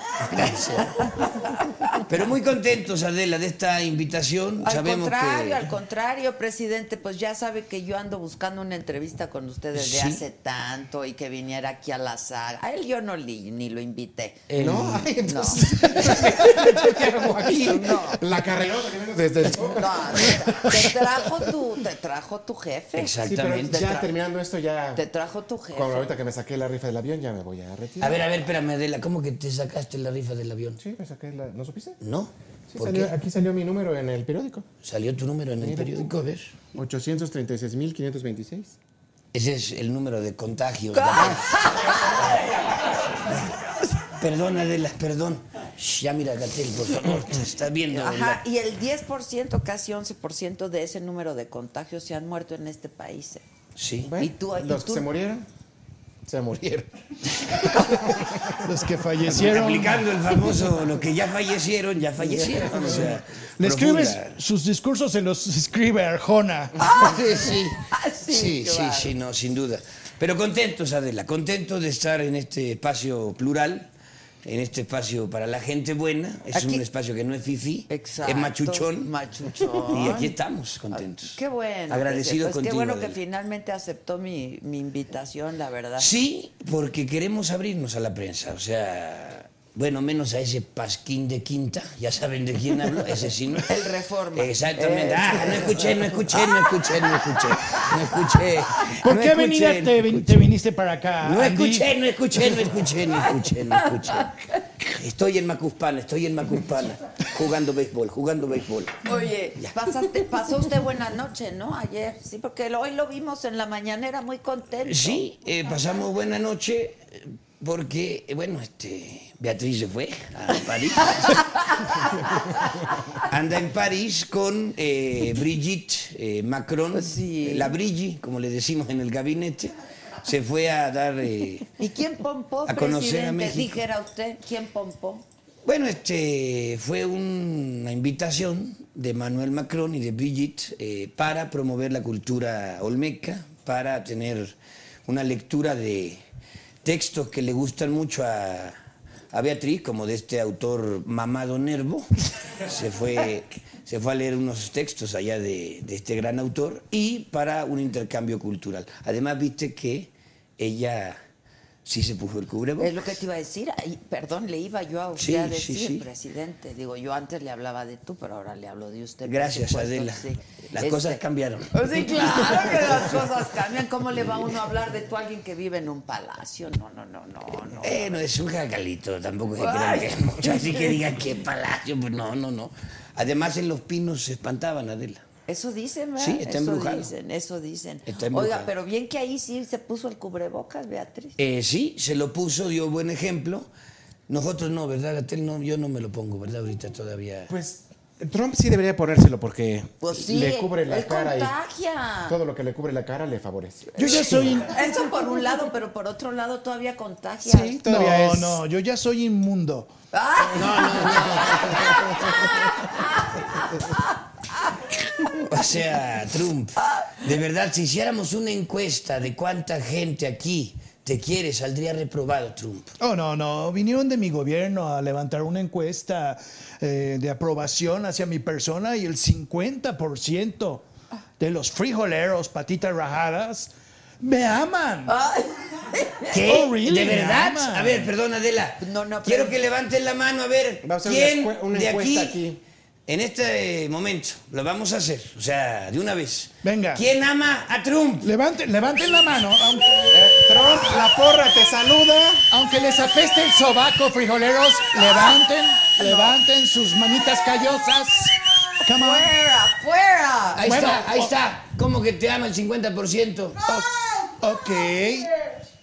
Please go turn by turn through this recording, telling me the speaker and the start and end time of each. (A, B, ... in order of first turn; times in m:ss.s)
0:00.2-0:01.1 A
0:01.0-0:02.0 B
0:02.0-0:05.7 A
0:04.6-0:14.5 B
0:09.8-0:10.2 A
0:14.5-0:15.1 A
0:14.6-0:21.0 C
0:15.3-0:15.6 B
0:16.0-0:16.6 A
0:17.5-0:18.2 B
0:19.7-0:24.1 B
0:23.0-0:23.9 A
0:23.2-0:25.0 C
0:25.0-0:26.1 B
0:25.7-0:28.3 C
0:28.0-0:30.8 A
0:30.8-0:32.0 C
0:32.0-0:33.1 A
0:32.7-0:34.7 C
0:34.8-0:36.5 A
0:35.6-0:36.1 C
0:36.7-0:38.8 C
0:39.3-0:42.5 A
0:40.9-0:42.2 B
0:44.1-0:48.4 A
0:47.9-0:53.4 B
0:53.8-0:54.1 A
0:54.0-0:55.5 C
0:54.2-0:55.1 B
0:56.2-0:58.6 C
0:58.6-1:00.1 D
0:59.3-1:04.3 A
1:02.3-1:03.2 C
1:03.6-1:06.8 D
1:06.8-1:09.1 B
1:06.8-1:13.9 A
1:14.4-1:19.1 A
1:16.5-1:16.8 B
1:17.9-1:20.3 B
1:19.6-1:23.2 A
1:20.9-1:26.1 B
1:26.0-1:33.8 A
1:33.7-1:36.6 B
1:34.3-1:40.5 A
1:38.9-1:41.9 D
1:41.2-1:49.8 A
1:44.1-1:44.6 B
1:49.0-1:55.2 B
1:54.9-2:02.4 A
2:01.1-2:03.0 B
2:03.2-2:11.8 A
2:06.9-2:07.7 B
2:11.8-2:15.2 B
2:12.7-2:13.8 A
2:15.6-2:24.6 A
2:25.1-2:26.2 A
2:26.8-2:28.8 A
2:29.3-2:41.2 A
2:41.8-2:43.0 A
2:42.8-2:58.2 B
2:45.2-2:46.1 A
2:49.2-2:53.2 A
2:57.8-3:05.2 A
2:59.6-3:01.0 B
3:05.5-3:11.4 B
3:06.2-3:07.1 A
3:08.1-3:08.7 A
3:11.4-3:13.7 A
3:14.3-3:17.5 A
3:17.5-3:21.5 C
3:20.0-3:22.4 B
3:22.3-3:24.6 C
3:24.0-3:24.9 D
3:24.6-3:27.8 B
3:27.4-3:28.6 C
3:27.8-3:29.9 D
3:30.1-3:35.4 B
3:30.5-3:32.1 A
3:35.3-3:42.9 A
3:36.8-3:37.2 B
3:43.0-3:50.8 D
3:51.4-3:53.7 D
3:54.2-3:55.2 D
3:55.1-3:56.4 B
3:56.3-4:02.5 A
3:56.4-3:58.1 D
3:58.8-3:59.6 B
4:00.8-4:02.6 C
4:03.1-4:08.3 A
4:06.6-4:07.0 D
4:08.2-4:10.2 D
4:10.1-4:12.5 C
4:12.5-4:19.3 D
4:15.0-4:15.4 B
4:15.9-4:16.3 B
4:18.4-4:20.8 B
4:20.6-4:23.6 A
4:20.6-4:21.3 D
4:23.7-4:25.3 D